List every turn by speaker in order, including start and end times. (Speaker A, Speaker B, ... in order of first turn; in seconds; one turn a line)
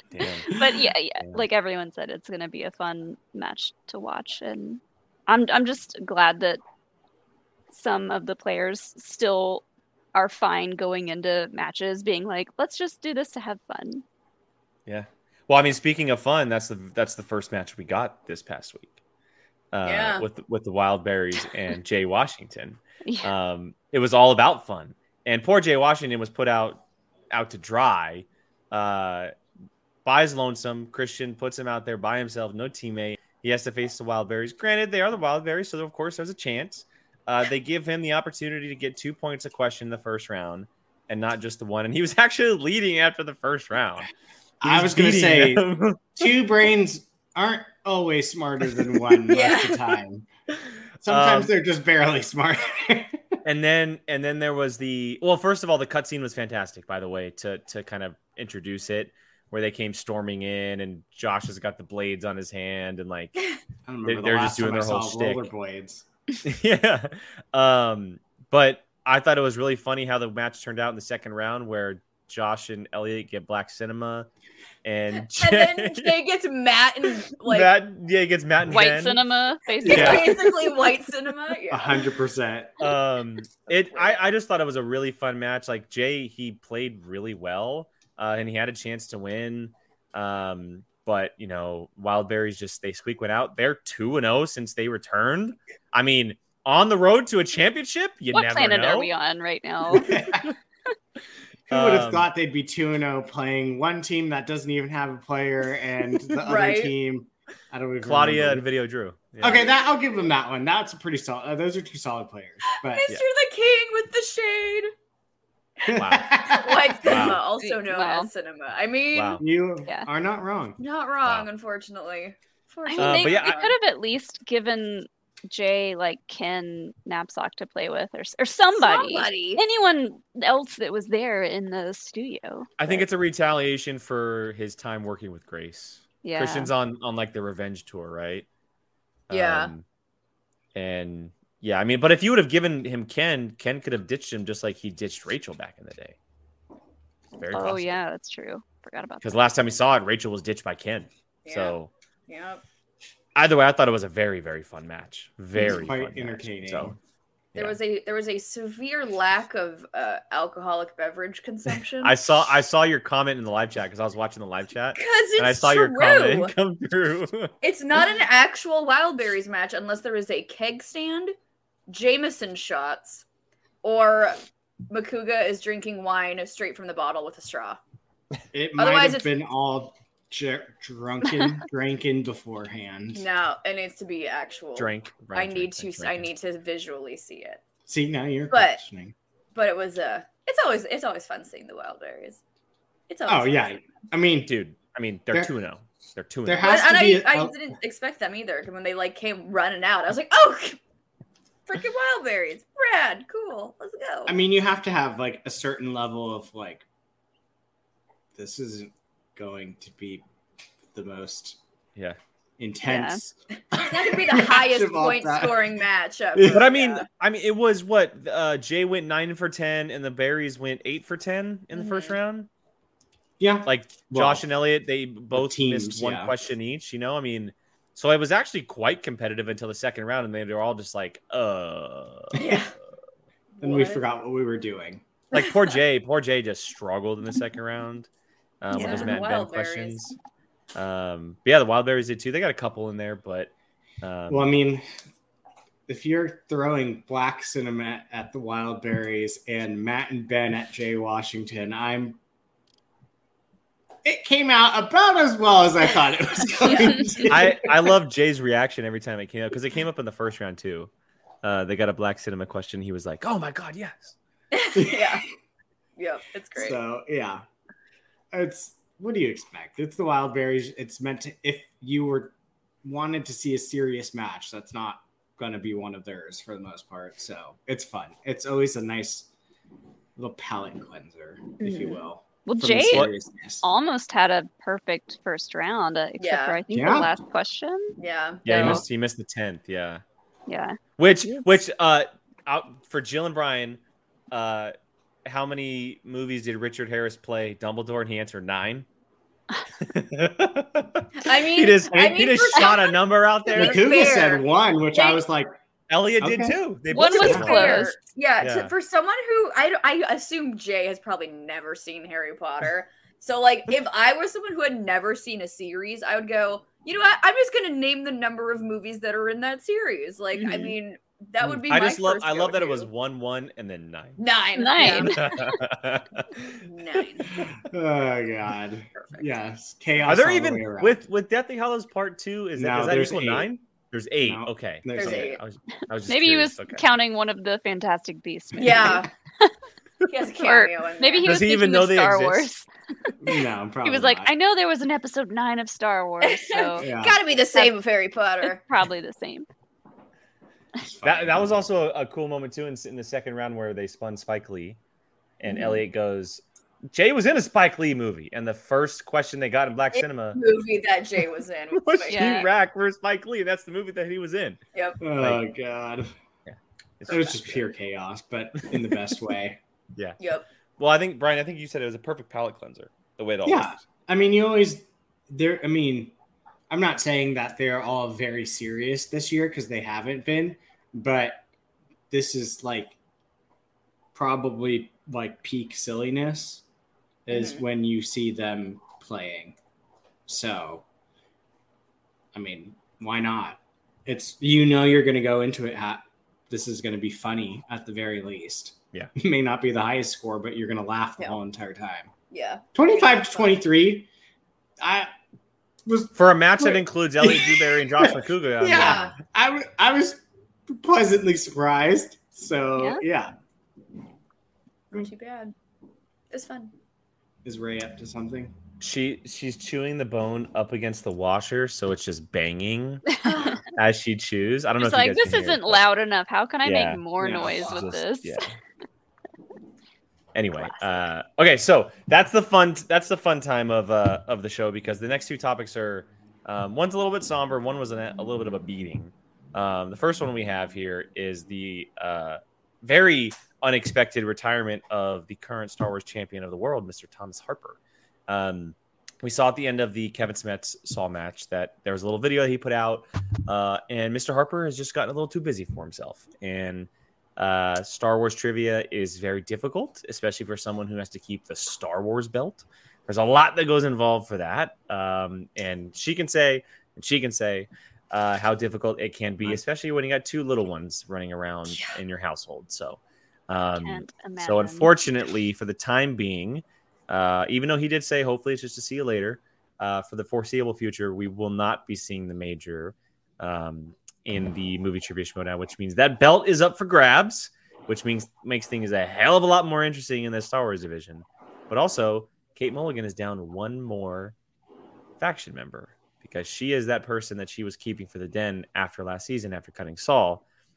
Speaker A: 0.1-0.6
Speaker B: 0.5-6.6
Speaker B: 7.7-14.0
Speaker A: 14.9-19.0
Speaker A: 19.7-29.3
Speaker C: 19.8-20.2
Speaker B: 23.0-23.3
Speaker A: 30.0-44.1
Speaker D: 44.6-50.3
Speaker A: 44.6-46.3
Speaker C: 49.3-49.8
Speaker D: 51.0-53.2
Speaker A: 51.0-51.5
Speaker A: 53.4-63.5
Speaker D: 63.9-66.0
Speaker A: 64.0-65.5
Speaker A: 66.4-74.3
Speaker A: 74.8-76.2
Speaker C: 75.2-77.7
Speaker A: 77.3-79.2
Speaker B: 78.7-80.5
Speaker C: 79.8-82.0
Speaker D: 79.8-80.4
Speaker A: 79.9-80.3
Speaker D: 81.7-82.8
Speaker A: 82.8-99.1
Speaker C: 83.7-84.2
Speaker B: 98.3-100.2
Speaker D: 99.9-100.5
Speaker A: 101.7-102.3
Speaker D: 101.7-108.7
Speaker C: 106.4-106.9
Speaker A: 108.0-109.7
Speaker D: 109.4-113.1
Speaker C: 112.8-114.9
Speaker D: 115.8-117.2
Speaker A: 115.9-117.4
Speaker C: 116.3-119.4
Speaker B: 117.6-118.3
Speaker A: 119.1-119.4
Speaker D: 119.4-120.8
Speaker C: 120.8-123.7
Speaker A: 121.2-121.5
Speaker B: 122.8-133.0
Speaker A: 123.0-123.6
Speaker C: 128.7-129.6
Speaker A: 132.8-138.4
Speaker B: 136.2-136.7
Speaker A: 139.3-139.8
Speaker C: 139.3-139.7
Speaker A: 140.7-146.2
Speaker A: 147.3-148.0
Speaker B: 147.5-149.4
Speaker A: 149.2-151.9
Speaker C: 151.4-151.8
Speaker C: 152.3-152.6
Speaker A: 153.3-156.9
Speaker D: 155.6-157.0
Speaker C: 157.6-162.2
Speaker A: 162.0-167.5
Speaker C: 164.9-166.5
Speaker C: 167.6-171.3
Speaker C: 171.9-173.2
Speaker C: 173.8-177.8
Speaker D: 178.5-183.3
Speaker C: 178.8-179.3
Speaker C: 183.1-187.6
Speaker A: 184.8-186.3
Speaker D: 187.9-189.1
Speaker C: 188.5-188.8
Speaker C: 189.5-192.4
Speaker C: 193.1-193.7
Speaker D: 193.3-194.5
Speaker A: 194.4-196.9
Speaker D: 196.4-197.6
Speaker C: 196.6-200.8
Speaker C: 201.7-204.3
Speaker D: 204.3-206.8
Speaker D: 208.3-210.2
Speaker D: 210.9-211.6
Speaker D: 212.6-215.7
Speaker B: 212.8-213.2
Speaker C: 213.7-217.0
Speaker D: 216.3-216.7
Speaker A: 216.5-222.5
Speaker C: 221.8-222.1
Speaker D: 223.4-224.4
Speaker A: 223.6-232.4
Speaker D: 225.3-226.3
Speaker C: 232.3-232.7
Speaker C: 233.6-234.0
Speaker D: 233.6-235.0
Speaker A: 235.3-238.1
Speaker A: 238.6-240.2
Speaker C: 238.7-240.0
Speaker B: 238.7-239.2
Speaker A: 240.7-244.5
Speaker D: 244.3-244.8
Speaker D: 245.9-252.2
Speaker D: 254.0-257.8
Speaker A: 257.2-260.9
Speaker A: 261.4-264.1
Speaker C: 264.5-265.2
Speaker D: 264.8-265.2
Speaker C: 266.0-266.8
Speaker D: 266.6-267.4
Speaker D: 268.3-279.3
Speaker D: 280.1-283.6
Speaker B: 281.6-283.1
Speaker B: 283.6-288.8
Speaker C: 286.2-286.6
Speaker D: 286.7-287.1
Speaker C: 288.0-288.4
Speaker A: 288.4-290.0
Speaker D: 288.5-288.8
Speaker B: 290.5-291.6
Speaker A: 291.0-293.8
Speaker A: 294.3-298.9
Speaker A: 299.8-304.1
Speaker C: 301.1-303.0
Speaker C: 303.5-305.2
Speaker D: 303.5-305.6
Speaker A: 305.9-308.7
Speaker D: 306.2-306.6
Speaker B: 306.9-307.9
Speaker C: 306.9-322.9
Speaker D: 307.2-307.5
Speaker B: 320.3-320.7
Speaker A: 321.7-324.2
Speaker C: 324.2-325.1
Speaker B: 324.5-325.6
Speaker A: 324.8-326.6
Speaker C: 326.6-327.3
Speaker D: 327.4-331.0
Speaker C: 328.9-329.3
Speaker A: 330.0-336.8
Speaker D: 332.6-333.5
Speaker D: 334.2-335.4
Speaker C: 334.9-335.4
Speaker B: 336.1-339.5
Speaker C: 338.6-339.1
Speaker C: 340.1-341.4
Speaker B: 340.4-343.1
Speaker A: 341.2-342.5
Speaker D: 343.2-344.3
Speaker B: 343.8-346.9
Speaker C: 346.2-348.6
Speaker D: 346.8-347.2
Speaker B: 348.4-349.5
Speaker D: 350.8-351.6
Speaker A: 351.0-354.8
Speaker A: 355.4-360.4
Speaker B: 355.5-355.8
Speaker C: 359.9-362.4
Speaker A: 361.7-364.6
Speaker B: 362.1-362.5
Speaker D: 365.0-366.1
Speaker A: 366.5-367.6
Speaker D: 367.1-369.6
Speaker A: 368.6-369.1
Speaker C: 370.2-370.4
Speaker A: 370.8-373.8
Speaker D: 373.4-376.1
Speaker D: 376.7-381.4
Speaker D: 382.1-382.9
Speaker D: 384.1-386.6
Speaker D: 387.3-389.6
Speaker C: 387.3-387.6
Speaker D: 390.3-390.8
Speaker D: 392.3-402.1
Speaker C: 402.3-403.6
Speaker D: 402.7-404.1
Speaker D: 404.8-405.1
Speaker D: 405.9-413.3
Speaker A: 406.1-409.1
Speaker C: 408.7-409.1
Speaker C: 414.9-415.5
Speaker C: 416.3-416.7
Speaker D: 417.4-418.5
Speaker A: 418.8-423.2
Speaker C: 423.2-423.6
Speaker A: 423.7-425.8
Speaker B: 424.8-428.4
Speaker A: 426.6-428.5
Speaker D: 427.2-427.8
Speaker A: 430.3-494.3
Speaker B: 430.6-431.1
Speaker B: 473.7-474.9
Speaker A: 495.2-500.4